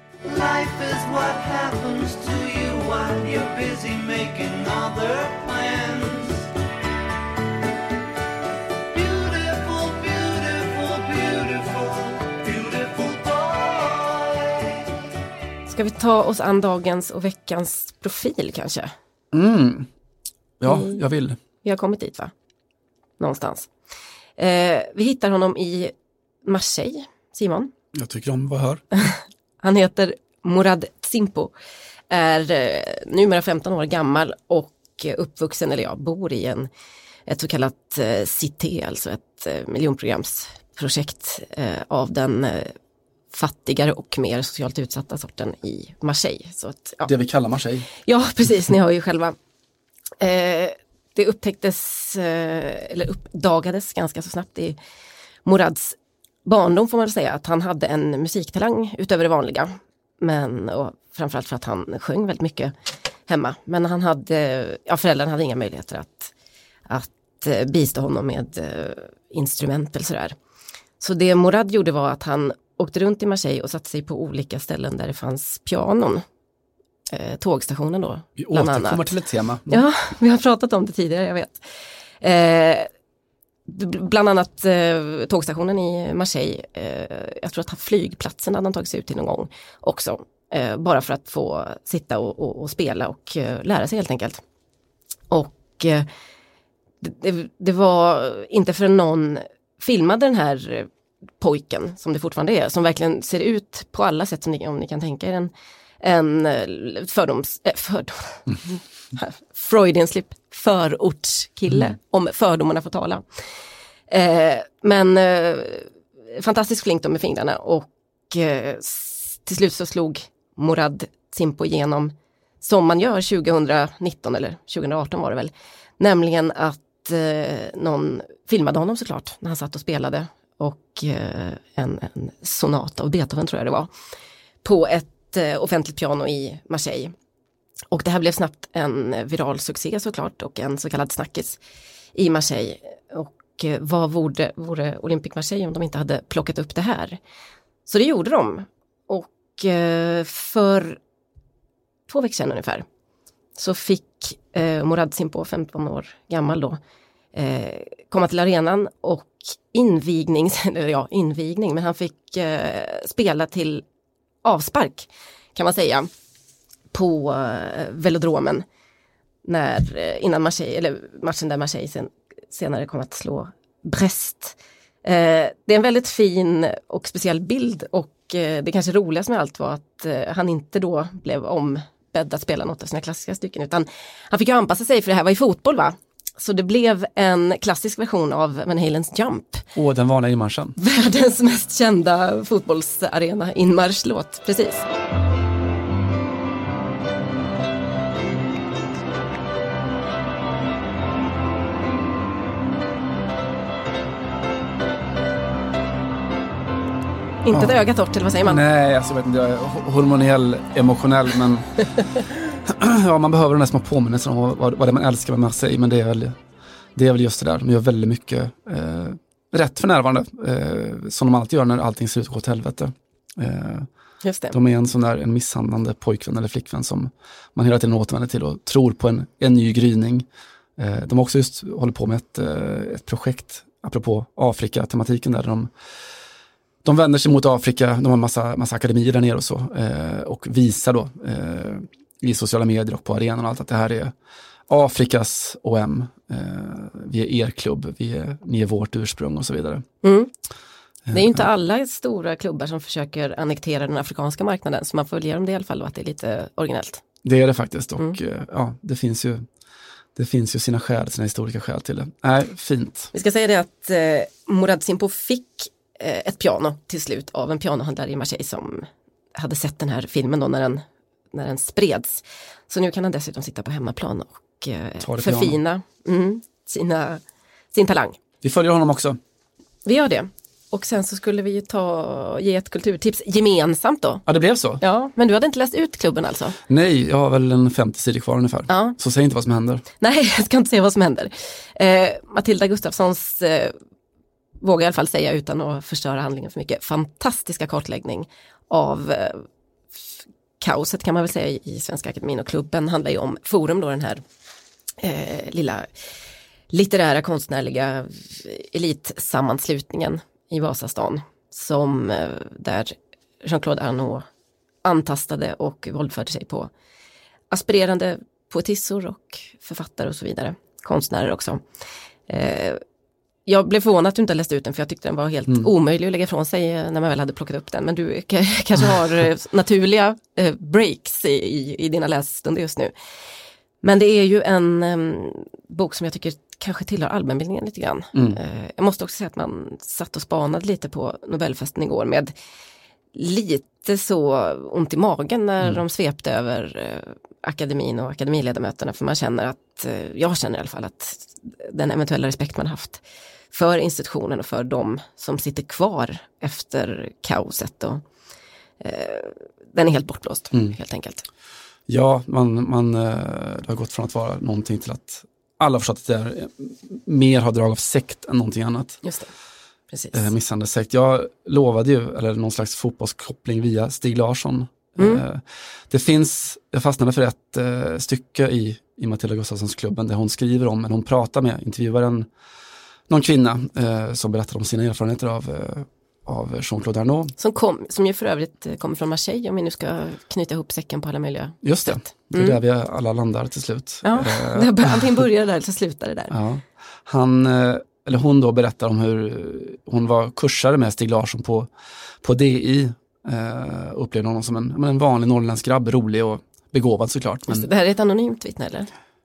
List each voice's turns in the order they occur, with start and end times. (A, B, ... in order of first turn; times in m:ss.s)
0:00.2-0:06.4 A
0:08.9-0:14.4 A
0:15.7-0:18.9 B
0:19.3-0:19.9 C
0:20.6-0:21.4 C
0:20.6-0:21.0 B
0:21.6-0:22.3 B
0:23.2-0:23.7 B
0:24.4-0:25.9 B
0:26.4-0:27.7 B
0:27.9-0:28.8 C
0:29.0-0:31.5 B
0:32.1-0:36.7 B
0:37.3-0:42.7 B
0:43.3-0:47.1 B
0:47.0-0:47.9 C
0:48.0-0:49.4 B
0:50.2-0:54.8 B
0:55.4-1:02.7 B
1:03.3-1:06.3 B
1:06.9-1:10.4 B
1:11.0-1:16.2 B
1:17.1-1:19.1 B
1:18.4-1:19.8 C
1:19.7-1:21.6 B
1:22.2-1:22.9 B
1:23.7-1:34.4 B
1:35.3-1:36.1 B
1:37.0-1:40.9 B
1:41.4-1:53.2 B
1:54.1-2:13.9 B
2:14.6-2:17.1 B
2:17.9-2:21.6 B
2:22.1-2:27.2 B
2:27.8-2:31.0 B
2:32.1-2:32.8 B
2:33.6-2:36.8 B
2:37.3-2:43.8 B
2:44.4-2:46.1 B
2:46.9-2:48.6 B
2:49.4-3:09.6 B
3:09.7-3:10.8 C
3:10.8-3:14.9 B
3:27.4-3:28.6 B
3:27.5-3:27.8 C
3:28.4-3:36.4 C
3:37.0-3:43.9 C
3:44.2-3:44.6 B
3:44.5-3:55.7 C
3:56.8-4:04.1 C
4:04.7-4:09.8 C
4:10.0-4:10.3 B
4:11.0-4:11.5 C
4:11.1-4:17.0 B
4:17.2-4:19.4 C
4:20.1-4:23.1 C
4:23.1-4:37.2 B
4:35.0-4:35.6 C
4:37.7-4:38.2 B
4:38.4-4:39.2 C
4:39.8-4:44.2 B
4:44.2-4:44.8 C
4:44.8-4:46.6 B
4:46.7-4:49.8 C
4:48.7-4:49.0 B
4:50.0-4:53.7 B
4:54.6-4:59.4 B
5:00.6-5:04.2 B
5:05.0-5:05.9 B
5:06.7-5:14.2 B
5:14.8-5:16.7 B
5:17.5-5:21.6 B
5:22.3-5:22.8 B
5:23.4-5:32.9 B
5:33.8-5:42.3 B
5:38.1-5:38.4 C
5:43.1-5:58.0 B
5:58.8-6:01.2 B
6:01.9-6:09.0 C
6:09.0-6:09.3 B
6:09.9-6:10.3 B
6:10.1-6:22.3 C
6:15.0-6:15.2 B
6:23.1-6:27.3 C
6:27.4-6:32.6 B
6:31.6-6:35.2 C
6:34.0-6:36.3 B
6:36.3-6:41.7 C
6:42.2-6:47.7 C
6:47.5-6:48.9 B